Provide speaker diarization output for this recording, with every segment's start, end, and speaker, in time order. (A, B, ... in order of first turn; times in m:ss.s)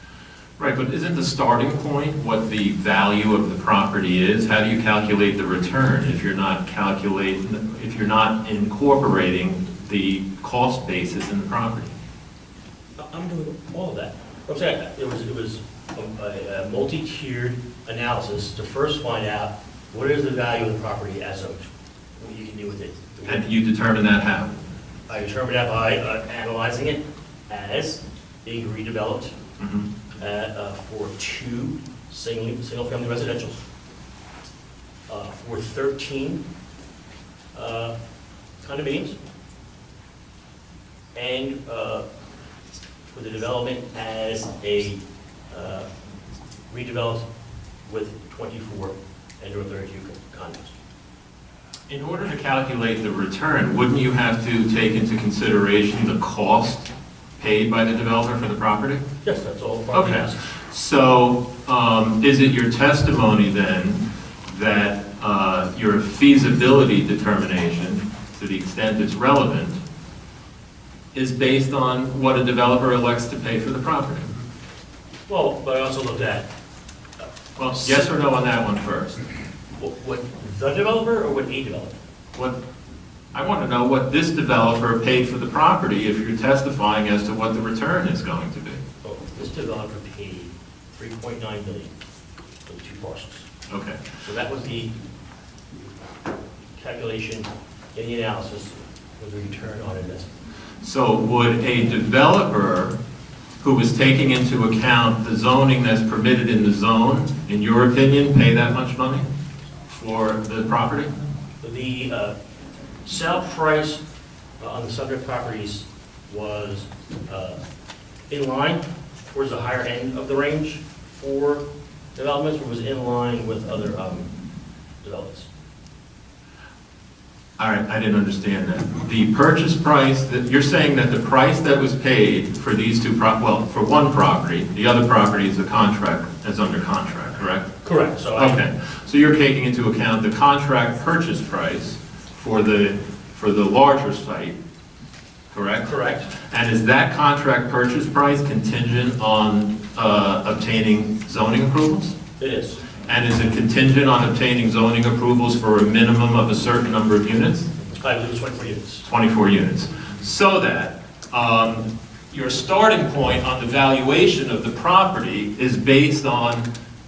0:00.6-0:11.9 A
0:13.0-0:21.6 B
0:22.2-0:23.4 B
0:23.2-0:24.5 A
0:25.1-0:29.3 B
0:29.6-0:29.9 A
0:30.2-0:33.6 B
0:35.1-0:36.4 B
0:37.5-0:37.9 B
0:38.6-0:39.2 B
0:41.1-0:42.0 B
0:43.1-0:45.9 B
0:46.7-0:47.2 B
0:47.8-0:50.8 B
0:51.9-0:59.0 A
0:59.2-1:00.4 B
0:59.9-1:09.8 A
1:11.1-1:14.3 A
1:15.3-1:16.5 B
1:17.6-1:19.2 A
1:19.8-1:22.0 B
1:23.3-1:28.8 A
1:29.0-1:31.9 B
1:32.6-1:33.5 B
1:33.7-1:34.0 A
1:34.2-1:34.9 B
1:36.8-1:40.3 B
1:40.8-1:43.0 A
1:43.6-1:49.2 A
1:49.9-1:51.1 A
1:51.6-1:52.3 B
1:53.0-1:54.0 B
1:54.6-1:57.6 B
1:58.3-2:01.6 B
2:02.1-2:04.3 B
2:05.0-2:05.5 B
2:07.6-2:17.7 A
2:17.8-2:18.6 B
2:18.4-2:24.6 A
2:25.5-2:32.1 A
2:25.8-2:26.3 B
2:32.4-2:32.8 B
2:33.0-2:37.7 A
2:37.8-2:39.1 B
2:39.0-2:46.7 A